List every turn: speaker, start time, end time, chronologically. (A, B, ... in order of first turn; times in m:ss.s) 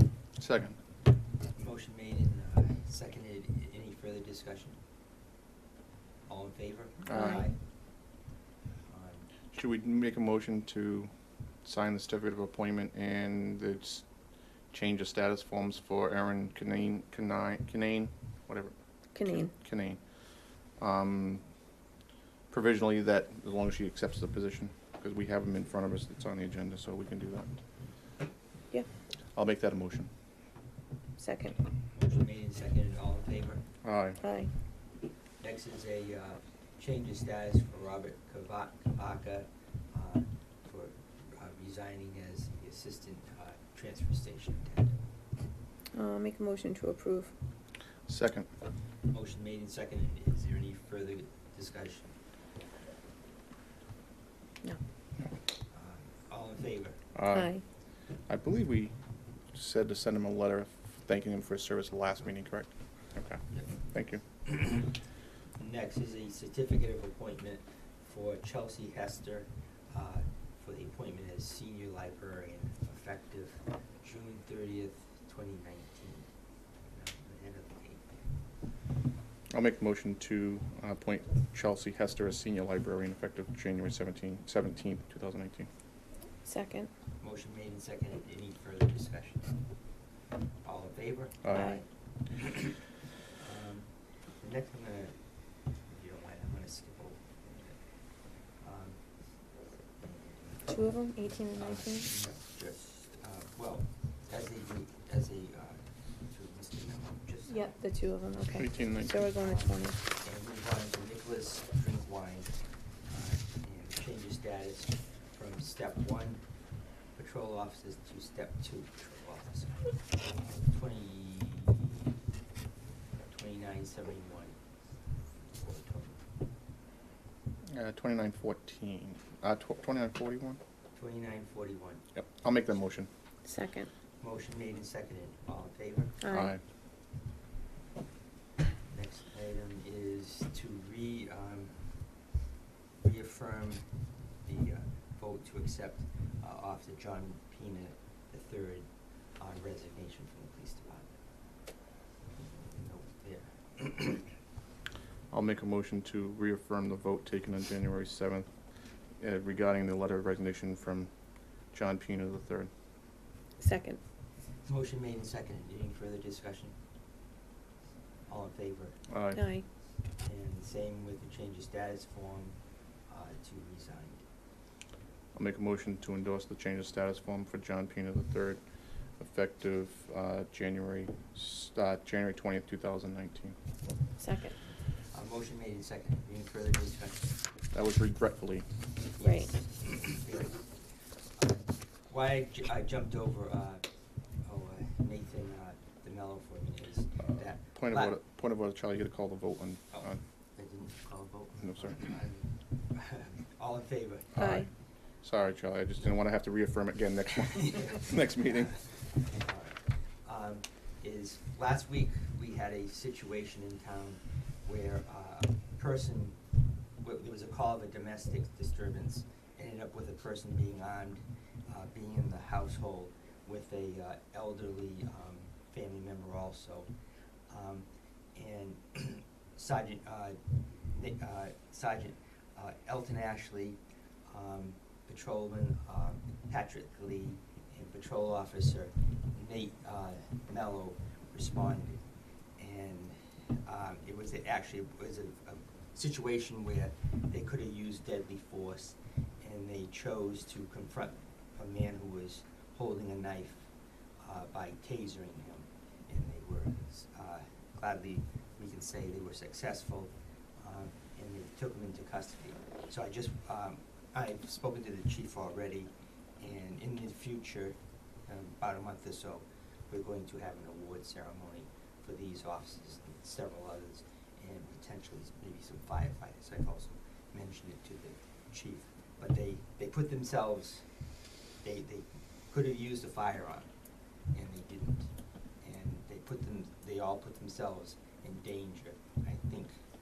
0:00.4-0:00.8 A
0:01.6-0:04.8 B
0:06.3-0:07.5 B
0:07.0-0:07.4 A
0:07.1-0:07.4 C
0:08.9-0:09.3 B
0:09.5-0:11.1 A
0:11.6-0:14.1 A
0:14.7-0:18.7 A
0:19.1-0:19.5 C
0:19.4-0:20.0 A
0:20.8-0:21.4 A
0:22.5-0:27.6 A
0:29.4-0:30.1 A
0:31.2-0:31.6 C
0:31.9-0:33.6 B
0:33.8-0:34.2 A
0:34.2-0:34.5 C
0:35.4-0:45.0 B
0:45.9-0:47.3 C
0:48.1-0:48.5 A
0:49.1-0:52.1 B
0:55.7-0:57.0 B
0:57.1-0:57.6 A
0:57.3-0:57.6 C
0:58.3-0:58.9 A
0:59.5-1:04.2 A
1:04.4-1:04.9 B
1:05.6-1:16.3 B
1:16.9-1:18.1 B
1:19.5-1:25.7 A
1:26.4-1:26.9 C
1:27.2-1:29.5 B
1:30.6-1:32.7 B
1:31.4-1:31.8 A
1:31.5-1:31.8 C
1:33.4-1:35.1 B
1:35.8-1:37.8 B
1:38.6-1:39.0 B
1:40.0-1:40.8 B
1:40.7-1:42.1 C
1:41.3-1:47.8 B
1:47.5-1:50.0 C
1:48.5-1:49.2 A
1:48.9-1:52.5 B
1:53.0-1:56.4 B
1:57.1-2:02.1 B
2:03.3-2:04.5 B
2:05.5-2:06.2 B
2:07.7-2:10.6 A
2:11.0-2:12.0 B
2:12.1-2:13.1 A
2:13.4-2:13.9 C
2:14.2-2:16.2 B
2:16.2-2:16.6 C
2:16.3-2:16.6 A
2:18.9-2:22.0 B
2:23.0-2:23.8 B
2:24.4-2:31.1 B
2:32.3-2:34.3 B
2:35.3-2:38.5 A
2:39.2-2:41.1 A
2:41.7-2:42.7 A
2:43.6-2:44.0 C
2:44.6-2:46.7 B
2:48.3-2:49.0 B
2:49.1-2:49.4 A
2:49.3-2:49.6 C
2:50.2-2:52.6 B
2:53.1-2:54.2 B
2:55.3-2:58.6 A
2:59.2-3:03.6 A
3:04.2-3:04.6 C
3:05.1-3:07.3 B
3:07.7-3:08.6 A
3:09.2-3:10.7 B
3:09.2-3:09.5 C
3:11.4-3:13.8 B
3:14.4-3:18.2 B
3:17.3-3:20.2 A
3:19.9-3:24.3 B
3:21.6-3:22.1 A
3:24.3-3:24.7 A
3:24.4-3:24.7 C
3:25.2-3:28.7 A
3:27.6-3:36.4 B
3:37.0-3:46.9 B
3:47.5-4:02.0 B
4:02.6-4:40.9 B
4:41.6-4:43.7 B
4:44.3-4:49.8 B